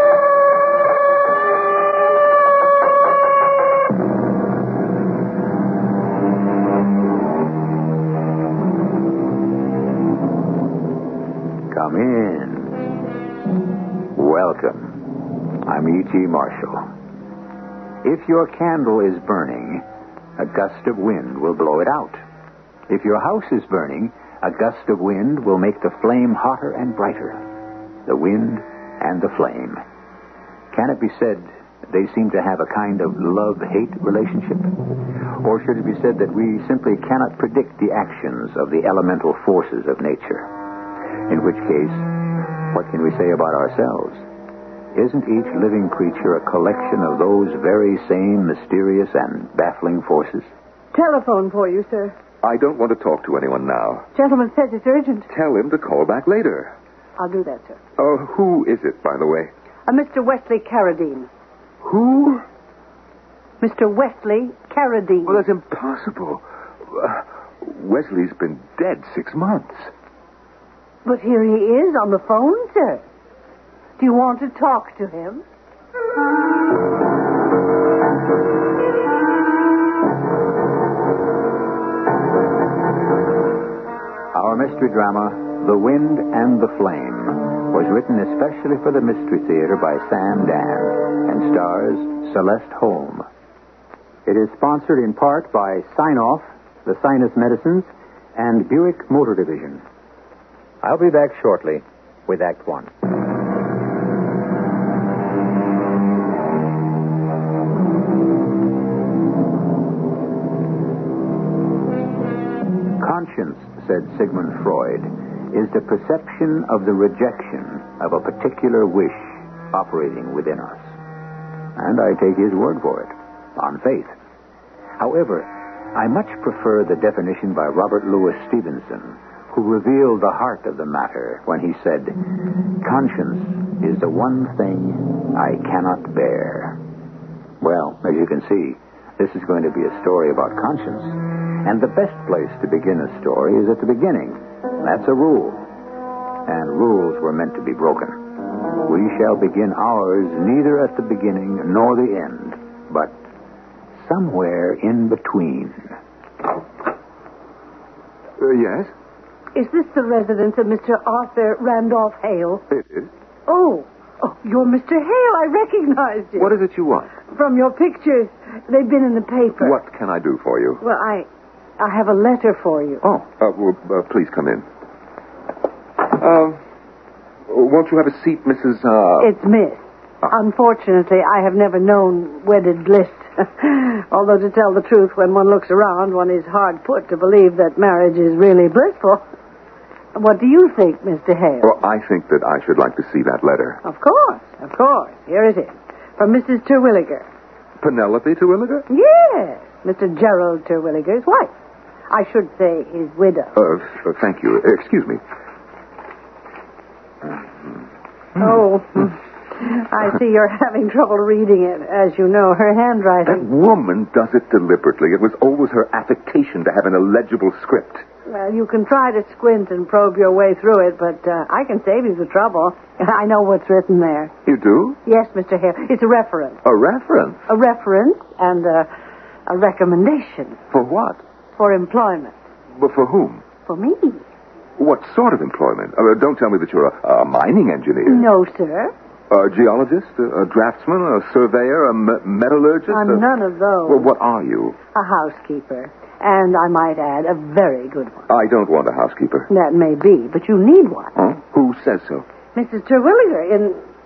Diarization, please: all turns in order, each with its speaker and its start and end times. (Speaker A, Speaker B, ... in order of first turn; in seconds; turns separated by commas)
Speaker A: 11.7-12.9, Speaker A: 14.1-15.1, Speaker A: 15.6-16.8, Speaker A: 18.0-19.8, Speaker A: 20.4-22.2, Speaker A: 22.9-27.4, Speaker A: 28.1-29.8, Speaker A: 30.7-34.7, Speaker A: 35.4-40.5, Speaker A: 41.3-42.1, Speaker A: 42.7-44.2, Speaker A: 44.9-50.5, Speaker B: 50.9-52.1, Speaker C: 52.4-54.1, Speaker B: 54.1-55.3, Speaker C: 55.3-56.7, Speaker B: 57.2-57.8, Speaker C: 58.0-59.5, Speaker B: 59.9-61.3, Speaker C: 61.8-62.4, Speaker B: 63.6-65.4, Speaker C: 65.2-69.9, Speaker B: 71.0-73.0, Speaker B: 74.0-75.4, Speaker A: 84.3-93.2, Speaker A: 94.2-99.8, Speaker A: 100.8-102.9, Speaker A: 113.0-120.8, Speaker A: 121.8-124.1, Speaker A: 125.0-132.2, Speaker A: 132.8-136.8, Speaker A: 137.6-145.7, Speaker A: 146.4-148.2, Speaker A: 148.8-153.1, Speaker A: 154.0-155.9, Speaker C: 158.4-158.9, Speaker B: 159.5-162.7, Speaker C: 162.7-163.1, Speaker B: 163.5-166.5, Speaker C: 166.4-167.1, Speaker B: 167.3-169.8, Speaker C: 169.6-170.8, Speaker B: 170.8-171.3, Speaker B: 171.8-173.0, Speaker C: 173.0-174.7, Speaker C: 176.0-176.6, Speaker C: 177.5-179.3, Speaker B: 179.2-189.2, Speaker B: 190.1-191.7, Speaker C: 191.6-193.8, Speaker B: 193.8-197.2, Speaker C: 197.8-198.8, Speaker B: 198.9-201.5, Speaker B: 202.1-203.5, Speaker C: 203.5-205.2, Speaker B: 208.4-213.4, Speaker C: 213.2-218.0, Speaker B: 218.3-224.3, Speaker C: 224.4-225.0, Speaker B: 225.0-226.6, Speaker C: 226.6-227.5, Speaker B: 227.5-228.9, Speaker B: 229.5-230.6, Speaker C: 230.7-231.2, Speaker B: 231.6-232.3, Speaker C: 232.8-233.4, Speaker B: 233.7-234.2, Speaker C: 234.8-238.3, Speaker B: 238.1-238.9, Speaker C: 239.3-243.2, Speaker B: 242.9-244.1, Speaker C: 243.8-244.8, Speaker B: 244.9-248.3, Speaker C: 248.3-249.5, Speaker B: 249.5-251.1, Speaker C: 251.2-252.2, Speaker B: 252.5-253.8